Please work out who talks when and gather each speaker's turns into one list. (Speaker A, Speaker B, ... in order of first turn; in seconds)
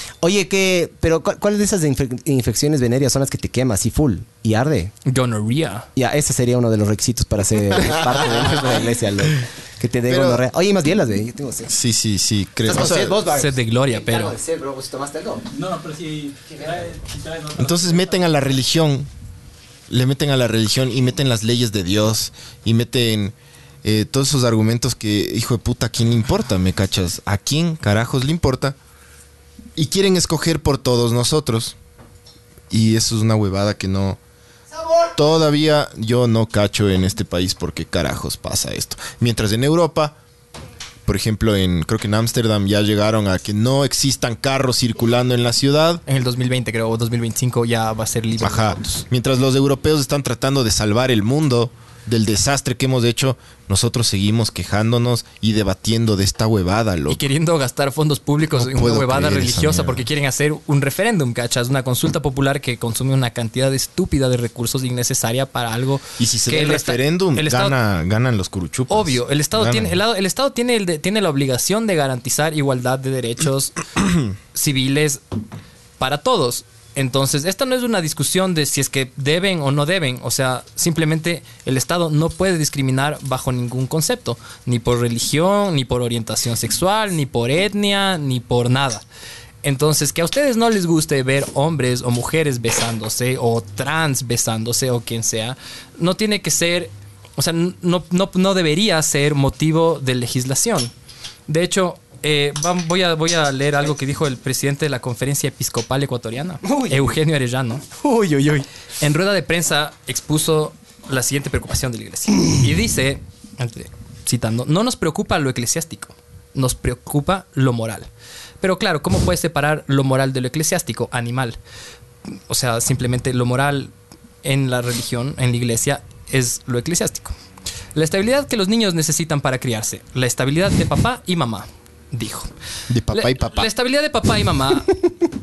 Speaker A: 0.2-4.9, 6.0-11.7, 12.6-15.4, 106.6-107.1, 108.0-108.7
Speaker B: 5.0-5.9, 13.2-14.3, 46.1-49.0, 57.1-67.7, 68.9-73.8, 74.5-75.2, 76.0-89.0, 89.6-100.9, 101.5-107.8, 109.0-118.1, 118.6-121.6, 122.3-123.9, 124.4-127.3, 127.9-132.5, 133.1-135.0
Speaker C: 8.2-8.7, 10.1-10.4, 11.7-13.2, 17.6-19.1, 19.9-28.8, 29.8-31.8, 32.7-34.2, 35.1-40.1, 41.0-46.0, 48.4-57.2, 58.5-60.0, 66.2-70.0, 132.9-133.7
Speaker D: 15.5-18.3